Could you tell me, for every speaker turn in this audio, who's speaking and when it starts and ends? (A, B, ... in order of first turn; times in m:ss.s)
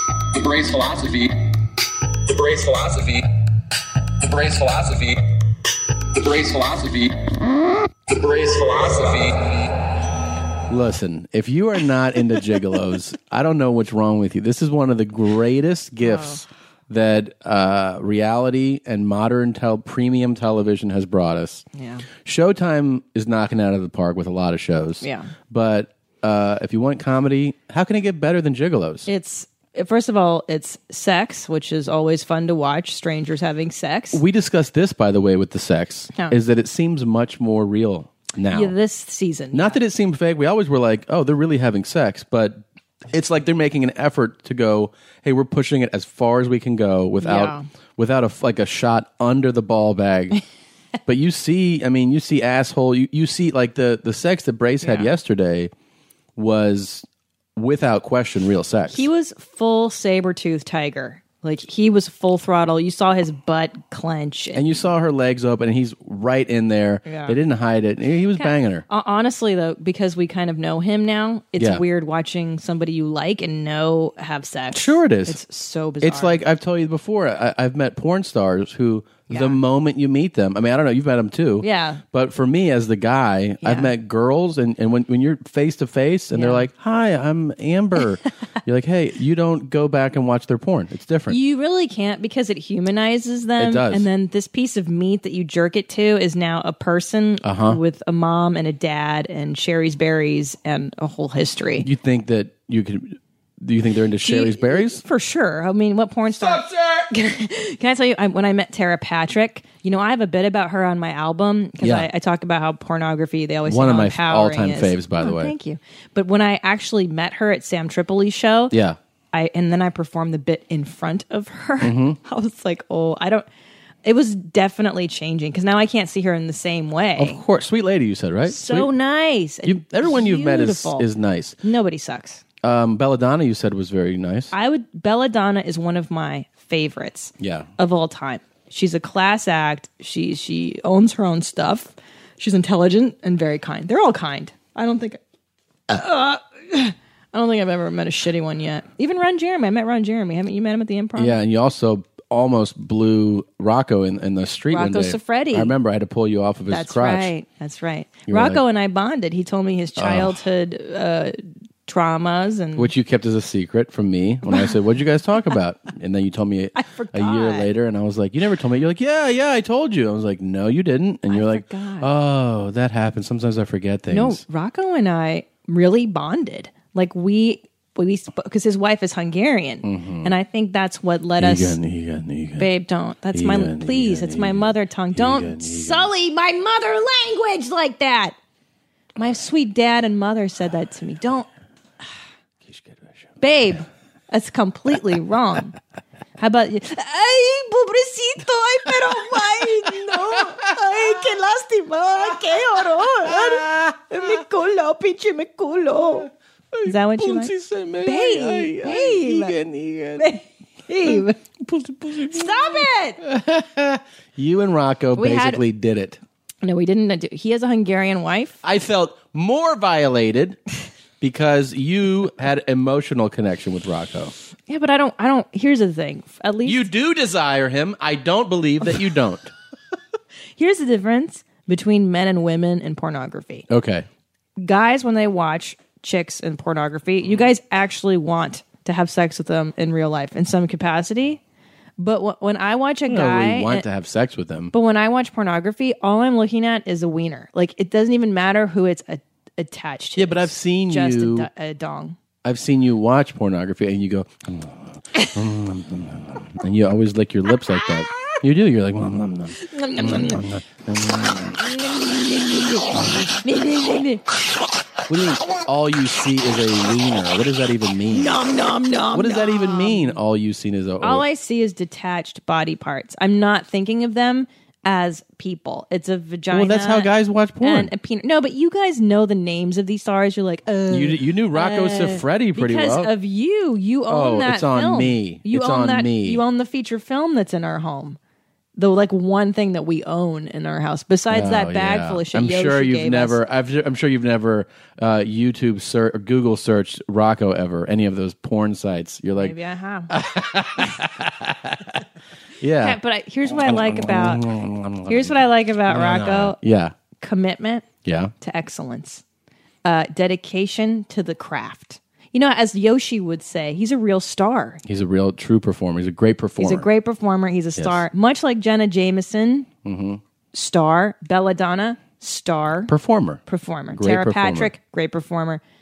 0:00.3-0:01.3 A
0:02.3-0:03.2 A
0:04.2-0:05.2 A
0:06.1-0:07.1 A
0:08.1-0:09.7 A
0:10.7-0:21.6 B
0:16.0-0:16.4 C
0:21.8-0:22.1 C
0:22.2-0:29.1 B
0:25.0-0:25.3 C
0:29.1-0:34.2 C
0:34.1-0:38.7 B
0:38.5-0:39.8 C
0:39.5-0:50.4 B
0:47.2-0:47.7 C
0:51.1-0:55.7 B
0:54.8-0:55.1 C
0:56.4-0:59.1 B
0:58.9-1:04.7 C
1:04.5-1:08.9 B
1:07.1-1:07.4 C
1:08.4-1:16.4 C
1:14.7-1:15.4 B
1:16.0-1:31.4 B
1:19.3-1:19.6 C
1:21.6-1:22.0 C
1:23.6-1:23.9 C
1:26.3-1:26.6 C
1:31.3-1:41.9 C
1:33.6-1:34.1 B
1:37.4-1:37.8 B
1:41.8-1:45.0 B
1:44.2-1:58.7 C
1:51.8-1:52.1 B
1:53.7-1:55.5 B
1:58.7-1:59.0 B
1:59.3-2:03.5 C
2:01.8-2:02.2 B
2:04.0-2:07.4 C
2:07.2-2:08.9 B
2:08.5-2:11.1 C
2:09.6-2:11.6 B
2:11.6-2:12.4 C
2:12.6-2:14.5 B
2:14.5-2:25.2 C
2:17.4-2:17.7 B
2:25.9-2:31.4 C
2:31.2-2:37.3 B
2:34.7-2:35.8 C
2:36.7-2:42.9 C
2:38.3-2:38.6 B
2:40.0-2:40.4 B
2:42.8-2:54.4 B
2:44.5-2:44.7 C
2:46.8-2:47.7 C
2:51.3-2:52.1 C
2:54.1-3:01.8 C
2:59.8-3:00.3 B
3:01.4-3:02.7 B
3:02.6-3:08.4 C
3:03.3-3:06.1 B
3:09.2-3:11.5 C
3:12.7-3:13.3 B
3:13.4-3:15.8 C
3:16.4-3:26.3 C
3:26.7-3:30.3 B
3:26.8-3:27.5 C
3:28.0-3:29.6 C
3:30.2-3:31.4 C
3:31.1-3:36.2 B
3:32.3-3:33.2 C
3:35.2-3:35.6 C
3:36.6-3:38.6 C
3:38.6-3:40.6 B
3:41.2-3:44.3 B
3:44.7-3:46.9 C
3:46.6-3:49.5 B
3:50.6-3:53.7 C
3:53.7-3:54.1 B
3:54.6-4:01.4 C
4:02.0-4:03.8 C
4:03.1-4:04.7 B
4:04.7-4:12.2 C
4:10.2-4:11.5 B
4:12.4-4:21.6 B
4:19.6-4:20.4 C
4:21.6-4:24.3 C
4:25.1-4:28.4 B
4:28.1-4:30.2 C
4:29.1-4:31.2 B
4:31.0-4:48.2 C
4:36.5-4:37.9 B
4:40.9-4:43.1 B
4:44.1-4:46.4 B
4:48.8-4:53.4 C
4:51.3-4:59.6 B
4:59.4-5:00.1 C
5:00.1-5:02.0 B
5:02.6-5:07.0 B
5:02.8-5:04.4 C
5:05.1-5:06.6 C
5:07.2-5:07.9 C
5:08.0-5:08.3 B
5:08.4-5:09.2 C
5:09.8-5:14.8 C
5:14.8-5:16.9 B
5:16.6-5:19.7 C
5:17.8-5:18.0 B
5:19.8-5:20.2 B
5:20.5-5:22.9 C
5:22.9-5:23.4 B
5:23.5-5:25.6 C
5:23.9-5:24.7 B